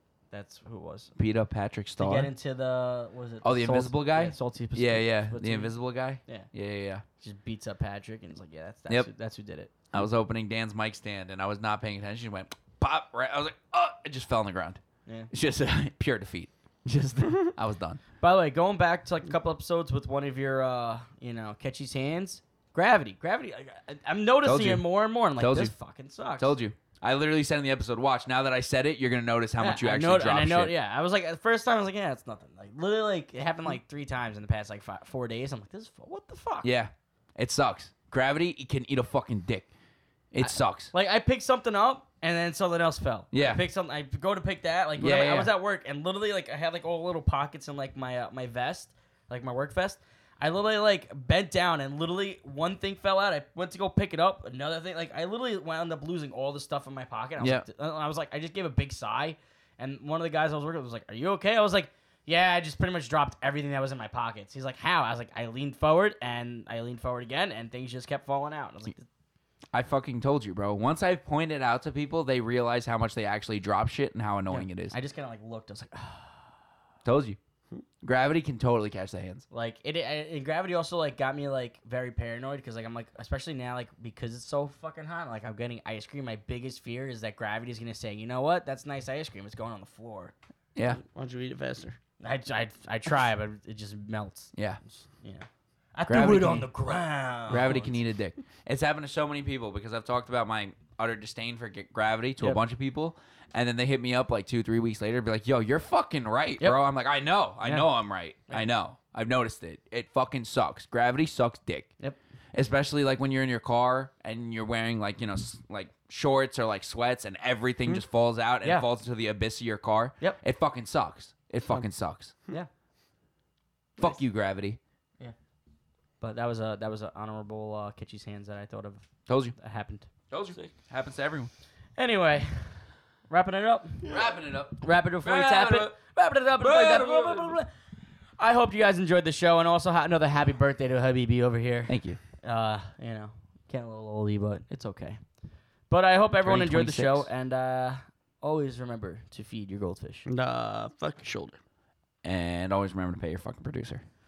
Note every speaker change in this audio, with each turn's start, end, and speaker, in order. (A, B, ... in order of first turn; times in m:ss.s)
0:00.3-0:01.1 A
0:01.2-0:02.3 B
0:02.0-0:05.7 A
0:03.4-0:07.0 B
0:07.2-0:09.7 A
0:09.9-0:18.0 B
0:18.2-0:26.5 A
0:24.4-0:25.7 B
0:26.4-0:30.7 B
0:29.6-0:36.7 A
0:36.6-0:39.7 B
0:40.3-0:40.9 B
0:40.4-1:09.1 A
0:43.3-0:43.6 B
0:45.0-0:45.5 B
0:57.4-0:57.7 B
1:09.7-1:14.9 B
1:14.5-1:16.4 A
1:17.0-1:17.4 B
1:18.0-1:19.4 B
1:19.5-1:30.3 A
1:30.7-1:31.0 B
1:31.0-1:32.0 C
1:32.2-1:38.0 A
1:34.5-1:34.8 B
1:36.1-1:36.7 B
1:37.5-1:51.9 B
1:47.6-1:47.9 A
1:52.5-2:02.3 B
2:04.0-2:04.8 B
2:06.2-2:10.1 A
2:09.3-2:09.5 B
2:10.3-2:11.5 B
2:12.0-2:14.2 A
2:14.0-2:15.9 B
2:14.8-2:17.7 A
2:16.6-2:17.6 B
2:18.4-2:25.2 A
2:21.9-2:22.2 B
2:25.9-2:30.3 A
2:26.4-2:27.3 B
2:30.3-2:31.6 C
2:32.2-2:34.0 B